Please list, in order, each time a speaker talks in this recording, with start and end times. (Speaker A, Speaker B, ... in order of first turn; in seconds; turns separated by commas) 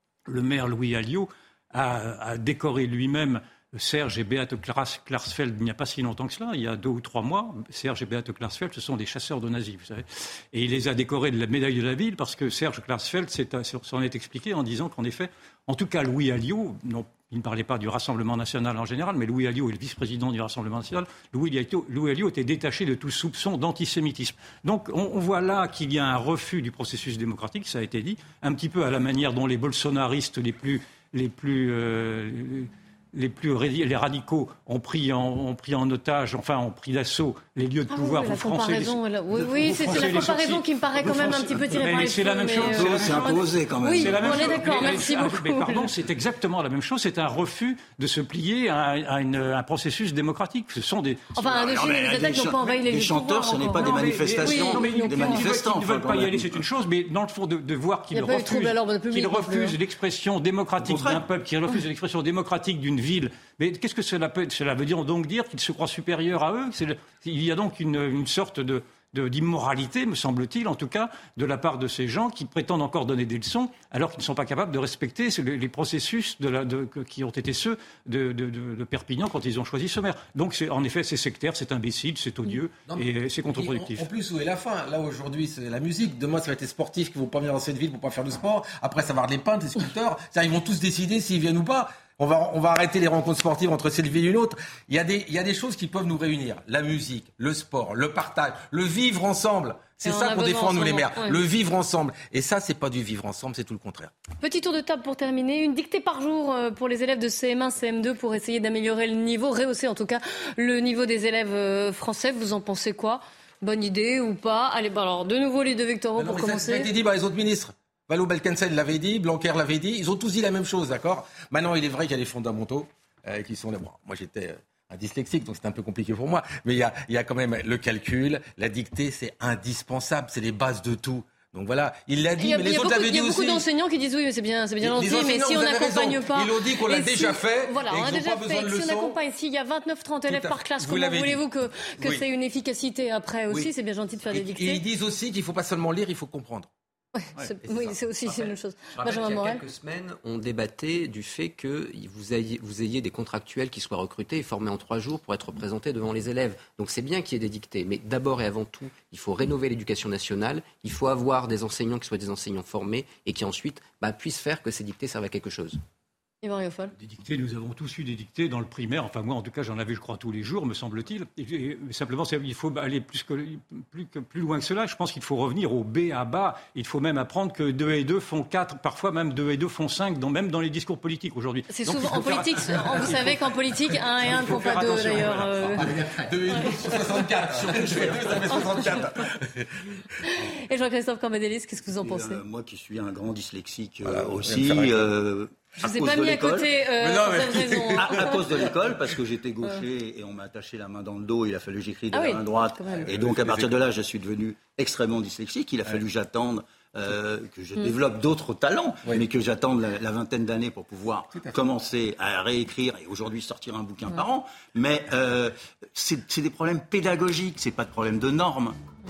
Speaker A: 0.3-51.4, Speaker B: 37.9-45.9, Speaker C: 42.8-44.8, Speaker B: 51.4-55.4, Speaker C: 51.4-56.6, Speaker A: 53.8-84.1, Speaker B: 58.1-59.8, Speaker C: 60.8-61.2, Speaker D: 82.9-104.1, Speaker B: 100.0-101.4, Speaker B: 104.4-116.9, Speaker D: 116.2-133.7, Speaker B: 132.4-144.8, Speaker D: 134.8-139.2, Speaker D: 140.2-141.4, Speaker D: 142.0-142.2, Speaker D: 144.2-146.7, Speaker B: 147.2-149.6, Speaker E: 147.5-165.8, Speaker B: 166.4-166.9, Speaker A: 167.0-183.3, Speaker B: 181.7-185.9, Speaker D: 184.2-189.7, Speaker B: 186.5-187.2, Speaker B: 188.5-189.0, Speaker B: 190.4-192.4, Speaker C: 192.0-196.7, Speaker D: 194.1-195.1, Speaker B: 195.8-198.6, Speaker D: 197.0-198.3, Speaker C: 198.0-218.8, Speaker B: 202.1-203.1, Speaker D: 203.1-203.8